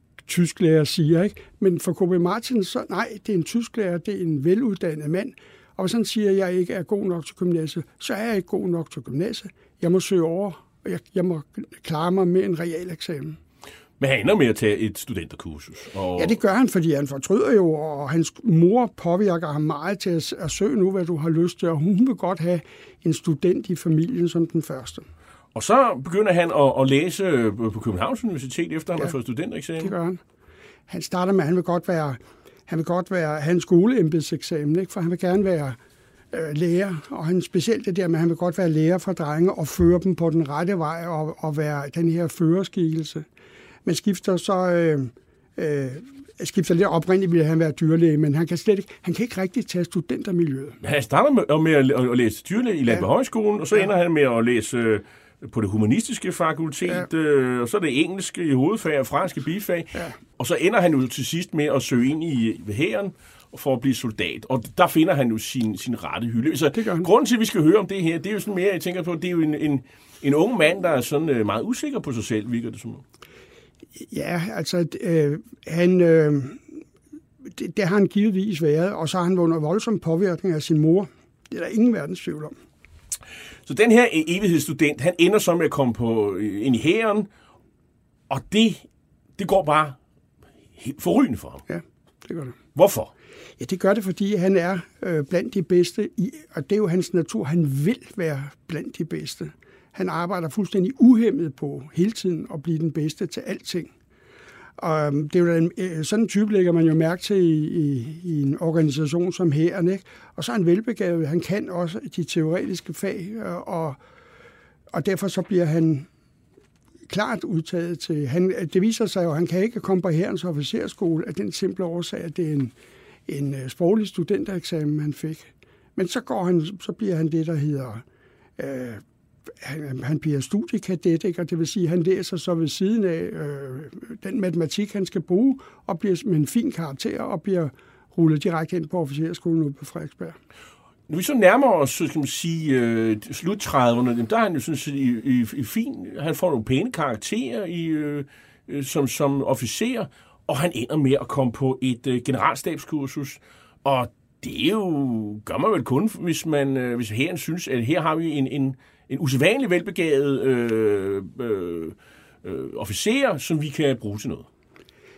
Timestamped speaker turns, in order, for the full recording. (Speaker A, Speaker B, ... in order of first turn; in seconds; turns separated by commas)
Speaker A: 0.3-13.4, Speaker B: 14.0-16.4, Speaker A: 16.2-25.1, Speaker B: 25.5-29.9, Speaker A: 29.8-30.2, Speaker A: 30.9-35.8, Speaker A: 36.3-43.2, Speaker A: 43.9-50.8, Speaker B: 50.8-73.0, Speaker A: 66.7-67.1, Speaker A: 74.1-76.7, Speaker A: 77.5-82.6, Speaker B: 83.7-87.3, Speaker B: 88.3-88.8, Speaker B: 89.4-90.0, Speaker B: 90.8-91.6, Speaker A: 91.7-92.5, Speaker B: 92.7-93.1, Speaker A: 93.6-103.9, Speaker A: 104.8-114.0, Speaker A: 114.9-116.1, Speaker A: 117.1-122.7, Speaker A: 123.3-128.0, Speaker A: 128.6-129.0, Speaker A: 129.6-140.3, Speaker B: 141.1-164.5